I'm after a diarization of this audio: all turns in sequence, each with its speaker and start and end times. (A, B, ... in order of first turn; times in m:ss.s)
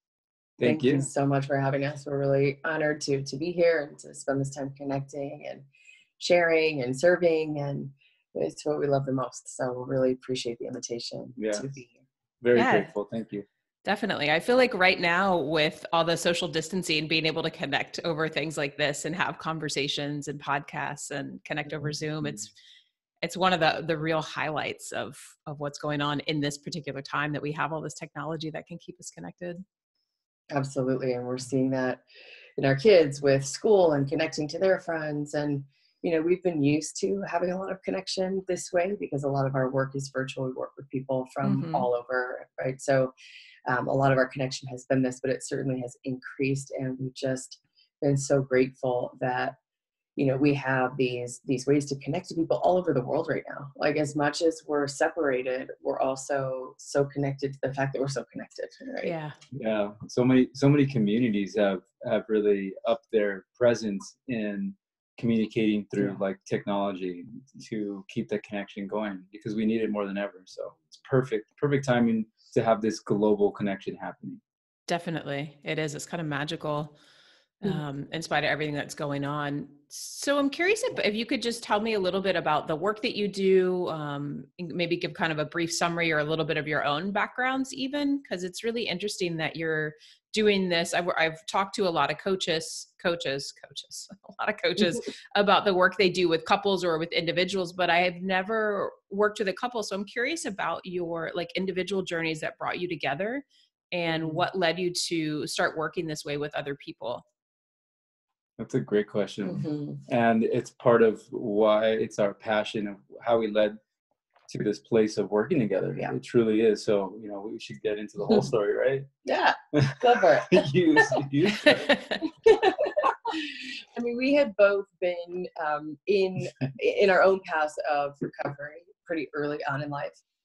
0:00.6-0:01.1 A
0:00.6-0:05.7 B
0:06.2-0:12.0 B
0:11.4-0:11.7 A
0:12.4-0:13.5 A
0:12.6-0:12.9 C
0:13.8-0:22.5 C
0:23.2-0:29.6 C
0:30.5-0:32.0 B
0:32.6-0:43.1 B
0:41.4-0:41.9 C
0:43.7-0:49.6 B
0:50.2-0:59.1 B
0:59.0-0:59.4 C
0:59.5-1:14.4 A
1:14.9-1:17.0 C
1:17.6-1:47.2 C
1:44.1-1:44.4 B
1:48.6-1:53.8 A
1:49.4-1:50.0 B
1:54.5-1:59.1 A
1:59.2-2:01.2 B
1:59.7-2:02.0 A
2:01.6-2:02.2 C
2:02.2-2:10.2 B